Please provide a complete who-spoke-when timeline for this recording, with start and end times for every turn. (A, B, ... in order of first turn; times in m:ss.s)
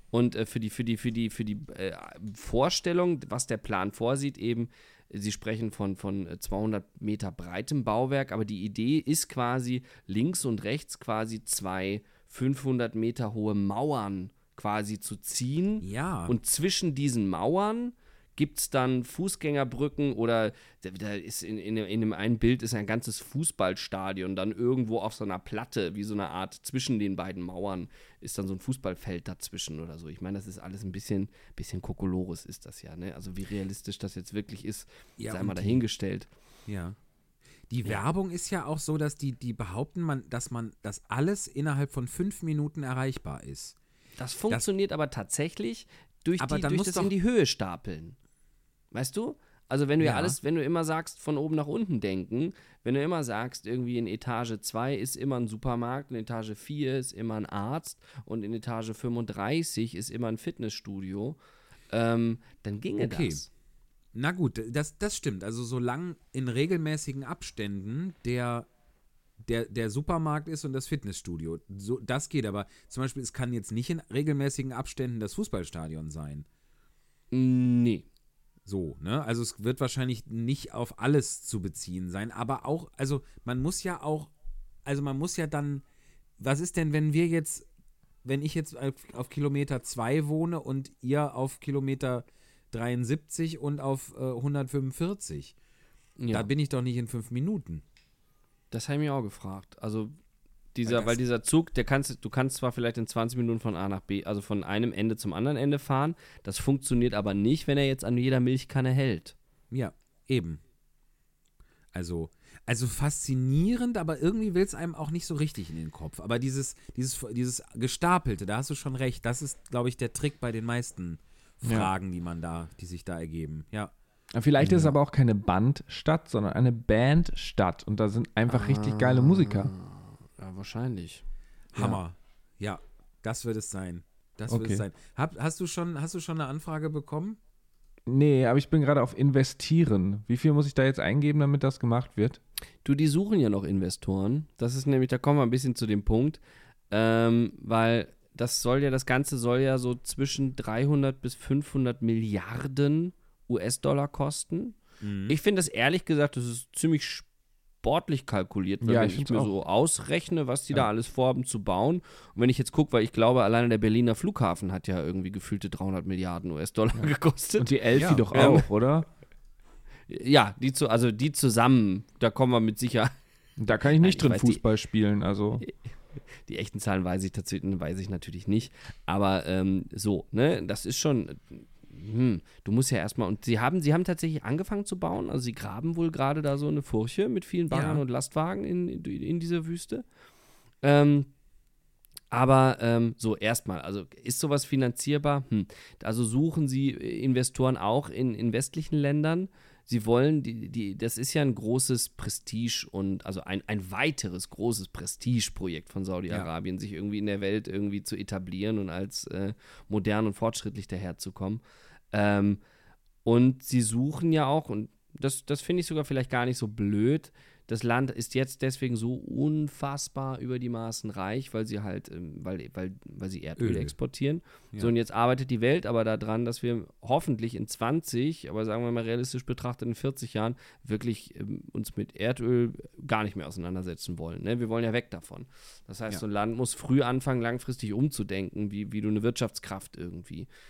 0:00.1-0:36.3 A
0:15.8-0:16.3 B
0:35.2-0:35.8 B
0:36.7-0:37.0 B
0:37.7-0:43.8 B
0:44.2-0:48.2 A
0:46.4-0:47.1 B
0:48.9-1:01.4 A
0:50.0-0:50.4 B
1:01.9-1:03.5 A
1:03.0-1:03.4 B
1:04.1-1:08.7 B
1:09.4-1:16.4 B
1:17.3-1:18.0 A
1:18.6-1:24.3 B
1:24.8-1:25.8 B
1:26.4-1:27.6 B
1:28.2-1:35.5 B
1:36.2-1:36.5 A
1:36.3-1:37.8 B
1:38.7-1:40.1 A
1:40.7-1:49.4 A
1:40.8-1:41.2 B
1:49.7-1:50.6 B
1:51.9-2:03.9 B
2:01.6-2:01.9 C
2:04.3-2:09.7 C
2:04.6-2:04.9 B
2:08.5-2:11.2 A
2:11.7-2:17.4 B
2:14.5-2:14.8 C
2:18.1-2:22.4 C
2:22.8-2:26.4 A
2:26.9-2:37.3 A
2:35.0-2:35.4 B
2:37.8-2:48.7 A
2:38.8-2:39.5 C
2:47.6-2:49.1 C
2:47.9-2:48.6 B
2:50.1-2:53.1 A
2:53.6-2:55.6 C
2:53.8-2:54.6 A
2:56.4-3:10.0 A
3:07.7-3:08.0 B
3:10.8-3:11.3 A
3:12.3-3:32.6 A
3:33.2-4:00.5 A
3:43.6-3:43.9 B